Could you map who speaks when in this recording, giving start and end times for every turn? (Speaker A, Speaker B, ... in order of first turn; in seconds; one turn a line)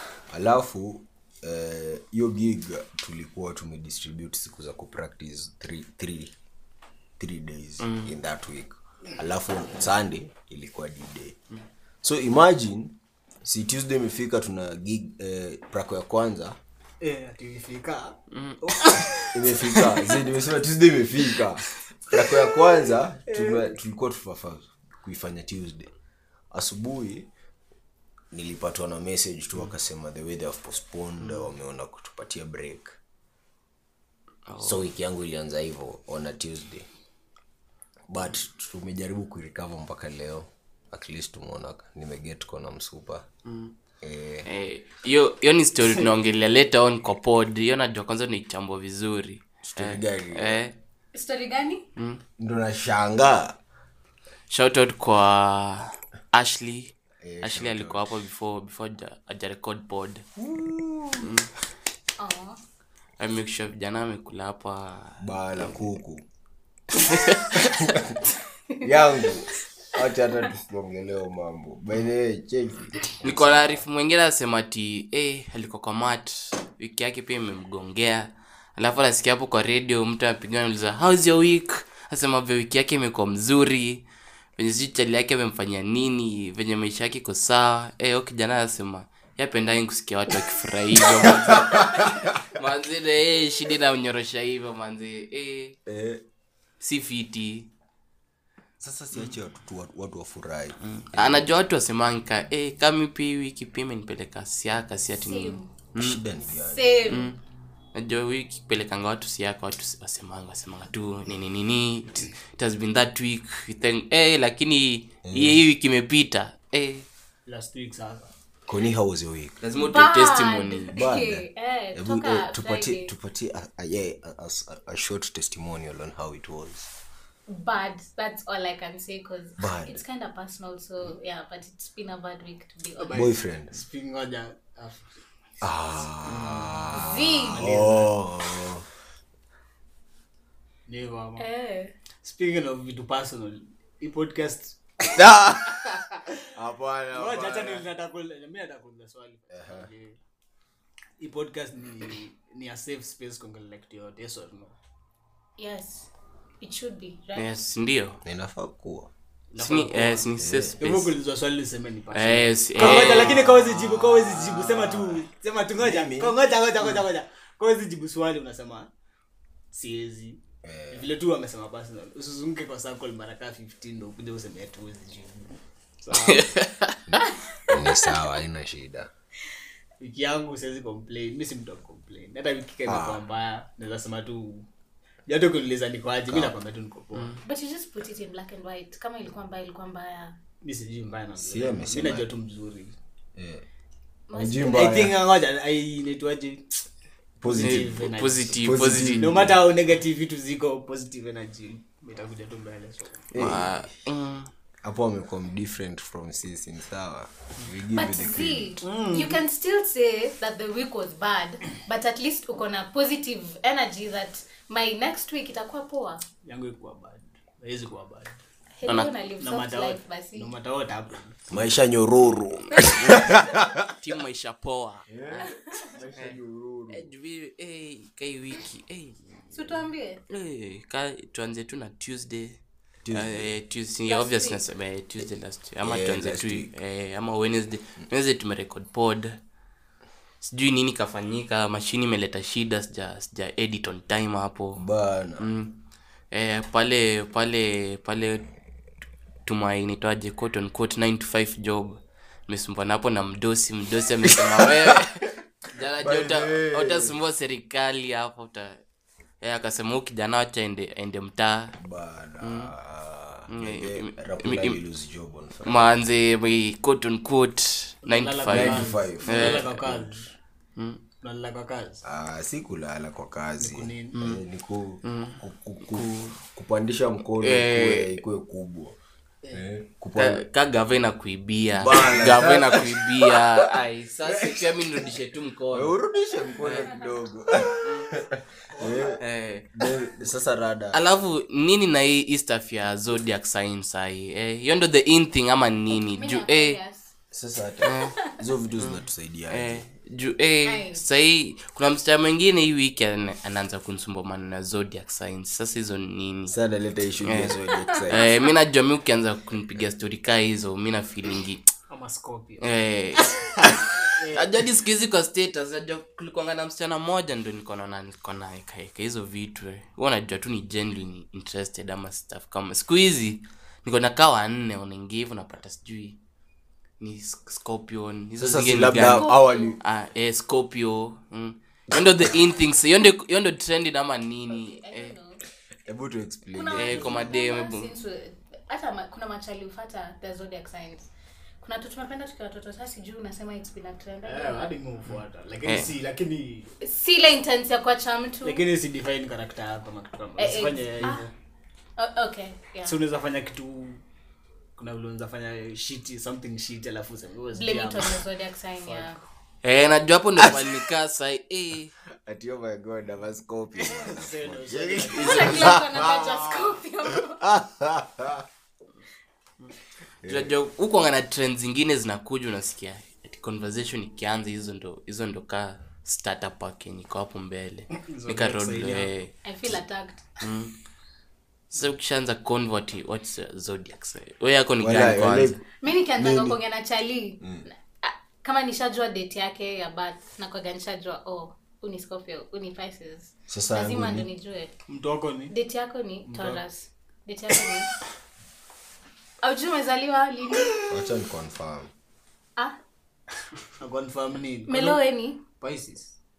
Speaker A: 0.3-6.3
Speaker A: 7.2-11.4
Speaker B: 7.8-8.1
Speaker A: 12.0-16.6
Speaker C: 17.0-20.2
Speaker B: 18.3-18.6
Speaker A: 19.3-25.9
Speaker C: 23.3-23.8
Speaker A: 26.5-27.3
Speaker A: 28.3-33.0
Speaker B: 31.2-31.5
Speaker B: 34.5-34.9
Speaker A: 34.6-36.9
Speaker A: 38.1-43.2
Speaker B: 43.5-43.7
Speaker A: 44.0-44.5
Speaker B: 44.5-50.7
Speaker A: 49.6-50.6
Speaker D: 51.1-51.9
Speaker B: 52.0-52.2
Speaker A: 52.4-53.6
Speaker B: 54.5-60.2
Speaker A: 57.2-58.0
Speaker A: 60.4-61.3
Speaker B: 61.2-61.5
Speaker D: 62.2-62.6
Speaker B: 63.2-65.8
Speaker A: 65.2-66.2
Speaker B: 66.9-67.8
Speaker A: 67.6-68.2
Speaker A: 68.8-73.8
Speaker B: 73.2-84.0
Speaker B: 84.6-95.8
Speaker A: 91.0-92.4
Speaker A: 95.9-96.2
Speaker B: 96.8-97.7
Speaker A: 98.8-101.5
Speaker B: 100.8-106.2
Speaker D: 105.1-105.7
Speaker A: 106.0-106.9
Speaker D: 106.6-107.3
Speaker B: 107.1-107.4
Speaker B: 107.9-117.1
Speaker A: 115.2-115.6
Speaker C: 117.5-118.3
Speaker A: 118.7-119.6
Speaker B: 119.6-121.0
Speaker D: 119.8-123.1
Speaker A: 120.9-126.9
Speaker D: 127.5-133.3
Speaker A: 129.6-130.0
Speaker C: 133.0-135.2
Speaker A: 133.1-133.8
Speaker A: 135.6-138.9
Speaker B: 136.3-136.7
Speaker D: 136.9-137.7
Speaker C: 137.4-138.2
Speaker C: 140.9-141.5
Speaker D: 141.4-141.9
Speaker C: 142.2-145.1
Speaker A: 145.2-145.8
Speaker C: 145.9-146.4
Speaker A: 146.5-147.9
Speaker C: 147.1-150.2
Speaker A: 149.5-149.9
Speaker C: 151.2-154.8
Speaker D: 155.6-156.1
Speaker D: 156.6-157.5
Speaker B: 157.3-158.2
Speaker A: 158.2-159.1
Speaker C: 159.5-160.3
Speaker B: 159.6-161.1
Speaker A: 160.4-160.8
Speaker C: 160.8-168.9
Speaker B: 162.1-163.5
Speaker A: 162.9-165.2
Speaker A: 165.8-166.4
Speaker C: 169.7-170.4
Speaker A: 170.6-171.1
Speaker C: 170.9-176.5
Speaker B: 176.1-177.1
Speaker A: 177.1-179.1
Speaker C: 180.0-184.7
Speaker A: 182.9-183.2
Speaker C: 185.3-187.4
Speaker A: 186.3-186.6
Speaker B: 187.2-187.4
Speaker D: 187.4-190.4
Speaker C: 190.6-192.9
Speaker A: 191.4-192.3
Speaker A: 193.4-193.6
Speaker D: 194.3-195.0
Speaker A: 194.3-195.2
Speaker C: 194.6-196.9
Speaker C: 197.4-198.6
Speaker A: 197.4-199.6
Speaker B: 197.6-199.4
Speaker C: 199.2-203.4
Speaker A: 203.3-203.9
Speaker B: 203.3-204.5
Speaker A: 204.8-208.8
Speaker D: 207.9-216.2
Speaker C: 208.8-209.4
Speaker C: 216.4-218.4
Speaker D: 218.8-220.5
Speaker B: 218.9-219.1
Speaker C: 219.4-221.4
Speaker A: 221.5-223.9
Speaker B: 222.8-223.1
Speaker B: 224.0-225.1
Speaker A: 225.1-227.1
Speaker D: 225.4-226.0
Speaker B: 226.9-239.4
Speaker D: 229.5-230.2
Speaker A: 233.0-233.5
Speaker D: 234.1-234.6
Speaker A: 235.8-236.7
Speaker B: 240.4-244.8
Speaker A: 244.8-245.5
Speaker B: 245.4-245.8
Speaker B: 246.3-248.5
Speaker B: 249.4-258.8
Speaker A: 254.6-254.9
Speaker A: 256.0-257.1
Speaker B: 259.4-261.8
Speaker A: 261.8-265.9
Speaker B: 262.4-262.7
Speaker B: 263.5-264.8
Speaker B: 265.6-269.7
Speaker C: 268.0-270.3
Speaker A: 268.5-270.2
Speaker B: 270.8-271.0
Speaker C: 271.2-272.0
Speaker A: 272.0-278.9
Speaker C: 273.6-274.2
Speaker B: 274.1-274.4
Speaker B: 275.0-276.4
Speaker B: 277.4-278.2
Speaker A: 279.5-280.4
Speaker B: 280.2-286.0
Speaker A: 281.8-283.6
Speaker A: 284.2-284.9
Speaker A: 285.7-289.2
Speaker B: 286.6-287.1
Speaker B: 287.8-288.2
Speaker C: 288.8-289.1
Speaker B: 289.2-289.7
Speaker A: 289.8-291.0
Speaker B: 290.9-296.8
Speaker D: 296.0-297.1
Speaker A: 297.3-299.9
Speaker B: 297.8-298.1
Speaker B: 298.8-306.6
Speaker D: 300.6-301.0
Speaker A: 306.5-308.2
Speaker B: 307.2-307.6
Speaker B: 308.1-311.7
Speaker C: 311.9-312.7
Speaker B: 312.6-326.2
Speaker C: 313.8-314.5
Speaker B: 327.0-335.1
Speaker A: 328.4-329.8
Speaker D: 329.0-329.8
Speaker D: 334.5-335.4
Speaker A: 335.9-337.2
Speaker D: 336.5-341.1
Speaker B: 336.7-337.9
Speaker D: 341.6-344.7
Speaker C: 344.2-346.7
Speaker D: 346.8-348.6
Speaker C: 348.4-351.3
Speaker D: 350.4-351.3
Speaker D: 352.0-353.0
Speaker C: 352.9-354.0
Speaker C: 354.8-358.2
Speaker D: 357.5-359.2
Speaker C: 358.8-359.2
Speaker B: 359.6-361.9
Speaker A: 360.4-360.7
Speaker A: 362.1-368.4
Speaker C: 363.8-366.1
Speaker D: 365.1-367.4
Speaker A: 370.2-370.5
Speaker B: 370.2-379.8
Speaker C: 378.0-379.1
Speaker D: 379.4-380.4
Speaker B: 380.4-380.7
Speaker B: 381.7-385.6
Speaker A: 384.8-385.6
Speaker D: 385.8-394.7
Speaker A: 386.2-386.6
Speaker A: 393.5-394.3
Speaker C: 394.9-395.6
Speaker D: 395.5-397.9
Speaker C: 396.3-396.6
Speaker D: 399.4-400.9
Speaker A: 400.9-401.9
Speaker C: 403.8-405.0
Speaker D: 404.7-405.4
Speaker C: 405.6-406.1